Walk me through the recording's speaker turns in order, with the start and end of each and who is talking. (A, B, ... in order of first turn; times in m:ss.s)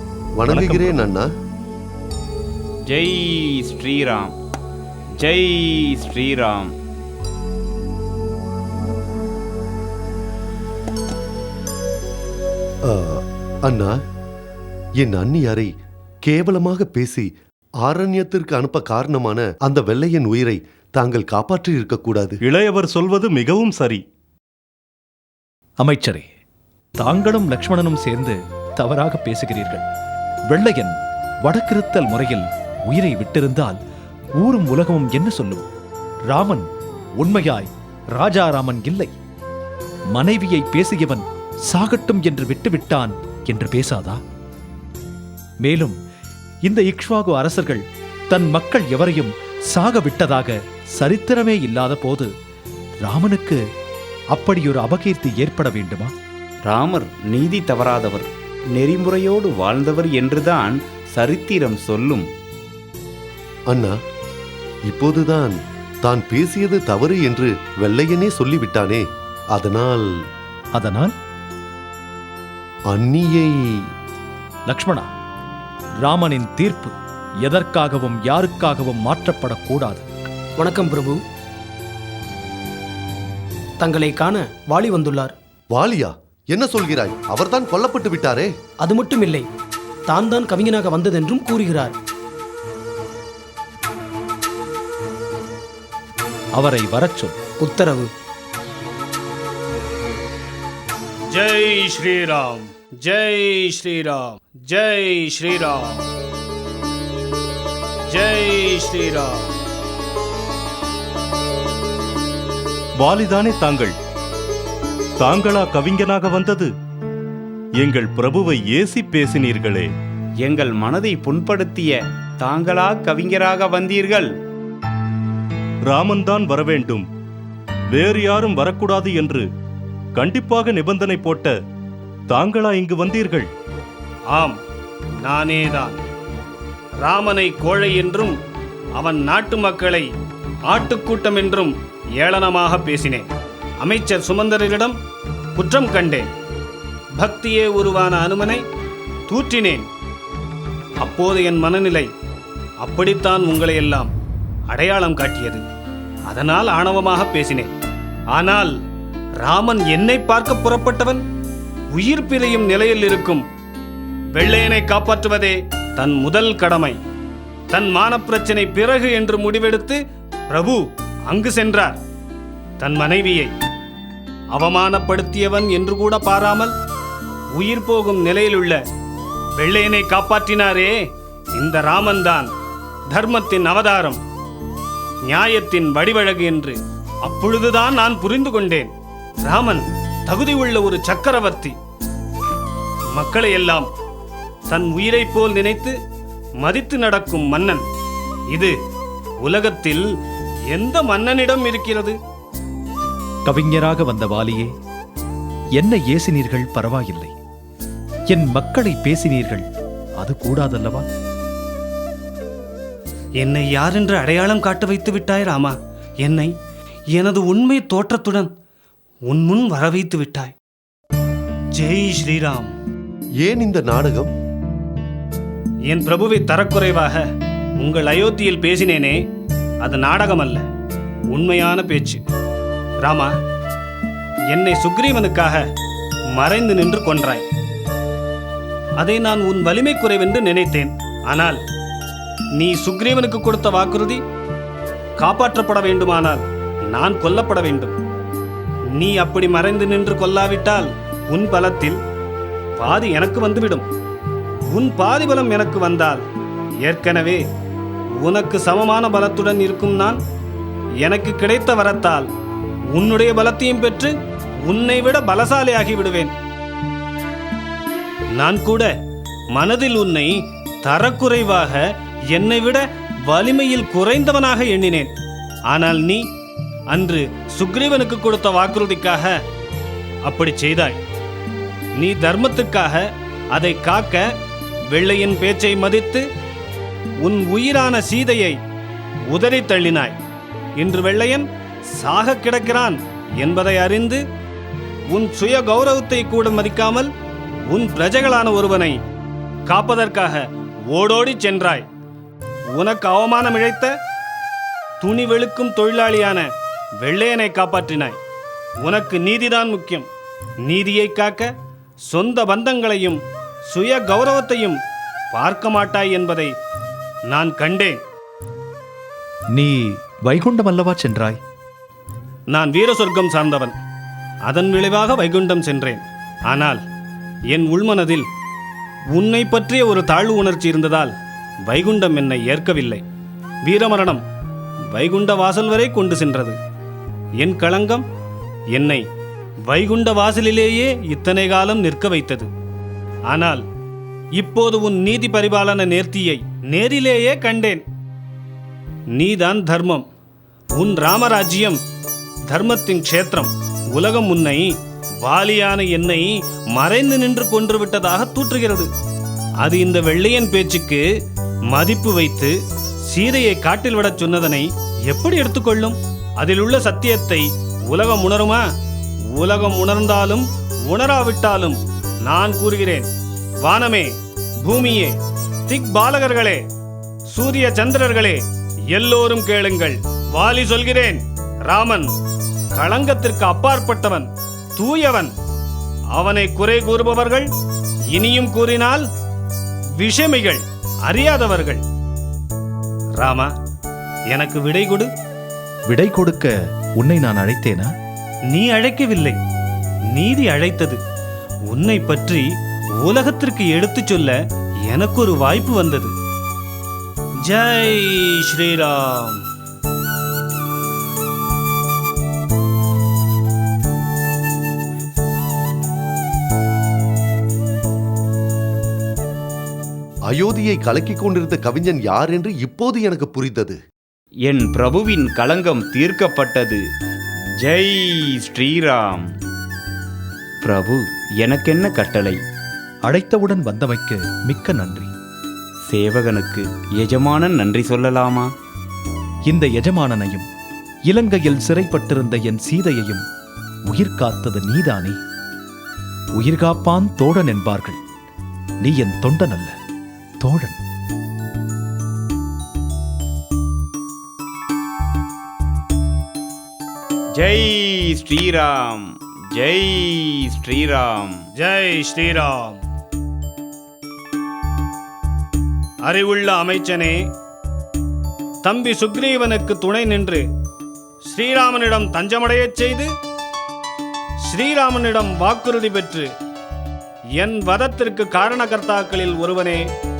0:00.4-0:01.3 A
0:00.5-0:01.0 B
0:02.9-0:04.3 C
0:05.2-0:06.7 C
0:12.9-0:14.0 A
0:15.0-0:15.7 A
0:16.2-0:17.3 A
0:17.8-0:22.4 A
0:22.4-0:24.0 B
0:25.8-0:26.3 D
0:27.0-0:29.8 D
0:30.5-0:33.8 D
0:34.4-0:35.7 D
0:36.3-0:36.7 D
0:37.2-0:39.1 D
0:40.1-0:44.2 D
0:45.6-0:46.0 D
0:46.6-0:52.3 D
0:53.0-0:53.6 D
0:54.3-0:56.1 D
0:56.6-1:02.2 C
1:03.7-1:04.0 A
1:04.9-1:10.1 A
1:10.7-1:11.1 D
1:12.9-1:13.8 A
1:14.7-1:15.1 D
1:16.0-1:16.9 D
1:17.4-1:20.0 D
1:20.6-1:21.2 E
1:23.8-1:25.3 E
1:25.7-1:28.5 A
1:28.8-1:29.4 E
1:30.1-1:31.9 E
1:36.6-1:37.3 D
1:37.6-1:38.1 E
1:41.3-1:46.0 F
1:48.1-1:49.5 F
1:53.0-1:54.0 B
1:55.2-1:56.7 B
1:57.8-1:59.9 B
2:00.4-2:04.3 C
2:05.8-2:07.1 B
2:07.9-2:09.5 B
2:10.1-2:11.6 B
2:12.3-2:13.5 B
2:14.3-2:14.6 F
2:15.2-2:16.0 F
2:17.0-2:18.3 F
2:19.0-2:20.1 F
2:20.7-2:23.3 F
2:23.8-2:25.0 F
2:25.6-2:26.3 F
2:27.2-2:28.6 F
2:29.3-2:29.8 F
2:31.0-2:32.1 F
2:32.8-2:34.1 F
2:34.7-2:35.6 F
2:36.3-2:37.7 F
2:38.3-2:38.7 F
2:39.4-2:41.2 F
2:41.9-2:43.4 F
2:44.3-2:47.0 F
2:47.7-2:50.0 F
2:50.5-2:52.0 F
2:52.8-2:53.5 F
2:54.5-2:56.7 F
2:57.6-2:58.8 F
2:59.6-3:00.9 F
3:01.6-3:02.5 F
3:03.1-3:04.2 F
3:05.3-3:08.9 F
3:09.4-3:11.8 F
3:13.2-3:13.9 F
3:14.7-3:15.9 F
3:16.6-3:17.8 F
3:19.4-3:20.0 F
3:20.7-3:22.2 F
3:23.4-3:24.7 D
3:25.8-3:27.3 D
3:28.3-3:29.6 D
3:30.2-3:31.0 D
3:33.4-3:36.5 F
3:37.1-3:38.5 F
3:39.3-3:40.5 F
3:41.8-3:42.7 F
3:43.4-3:44.3 A
3:45.9-3:47.2 F
3:47.8-3:49.2 F
3:49.8-3:50.6 F
3:51.3-3:52.2 F
3:53.0-3:53.3 F
3:54.5-3:55.6 F
3:56.4-3:57.4 F
3:59.0-4:01.6 F
4:02.6-4:04.2 F
4:05.2-4:07.9 F
4:09.0-4:12.0 F
4:12.8-4:13.8 F
4:14.7-4:16.2 F
4:16.8-4:17.4 F
4:18.2-4:20.2 F
4:21.0-4:22.3 F
4:22.9-4:24.1 F
4:24.7-4:26.3 F
4:28.4-4:28.9 F
4:29.5-4:35.1 F
4:35.7-4:36.2 F
4:36.9-4:39.3 F
4:40.2-4:41.0 F
4:42.0-4:44.2 F
4:44.9-4:46.2 F
4:47.2-4:48.6 F
4:49.3-4:50.2 F
4:50.8-4:54.2 F
4:55.1-4:57.1 F
4:57.7-4:59.0 F
4:59.7-5:01.8 F
5:02.8-5:03.9 F
5:05.0-5:06.4 F
5:07.0-5:08.2 F
5:08.8-5:10.1 F
5:10.6-5:11.5 F
5:12.1-5:14.8 F
5:15.3-5:16.5 F
5:17.3-5:18.0 F
5:19.5-5:21.4 D
5:22.5-5:23.7 F
5:24.4-5:26.8 F
5:27.5-5:28.2 F
5:29.2-5:31.1 F
5:31.7-5:33.0 F
5:33.6-5:34.2 F
5:34.9-5:36.6 F
5:37.4-5:38.0 F
5:38.7-5:39.0 F
5:39.7-5:42.5 F
5:43.3-5:43.6 F
5:44.4-5:47.8 F
5:49.2-5:50.0 F
5:50.8-5:51.8 F
5:52.5-5:54.7 F
5:55.2-5:58.9 F
5:59.6-6:01.0 F
6:01.7-6:02.5 F
6:03.1-6:08.6 F
6:09.4-6:13.1 F
6:13.6-6:14.1 F
6:14.6-6:15.2 F
6:15.7-6:16.6 F
6:17.3-6:18.4 F
6:18.9-6:22.1 F
6:22.7-6:25.3 F
6:26.2-6:27.5 F
6:28.1-6:29.0 F
6:30.0-6:31.8 F
6:33.2-6:33.5 F
6:34.3-6:35.1 F
6:35.9-6:37.9 D
6:38.5-6:39.4 F
6:40.1-6:41.0 F
6:41.7-6:42.5 F
6:43.0-6:44.4 F
6:44.9-6:46.1 F
6:47.5-6:49.4 F
7:00.3-7:03.8 A
7:04.5-7:06.8 C
7:07.6-7:09.2 C
7:10.6-7:12.4 C
7:13.1-7:15.1 D
7:15.9-7:18.5 C
7:19.5-7:20.4 D
7:21.1-7:23.2 D
7:23.9-7:25.2 D
7:26.4-7:28.0 D
7:28.8-7:29.7 D
7:30.4-7:30.8 D
7:37.4-7:41.4 C
7:41.6-7:42.8 F
7:46.0-7:47.2 F
7:48.6-7:50.5 F
7:51.3-7:53.1 F
7:54.5-7:56.3 F
7:57.4-7:59.8 F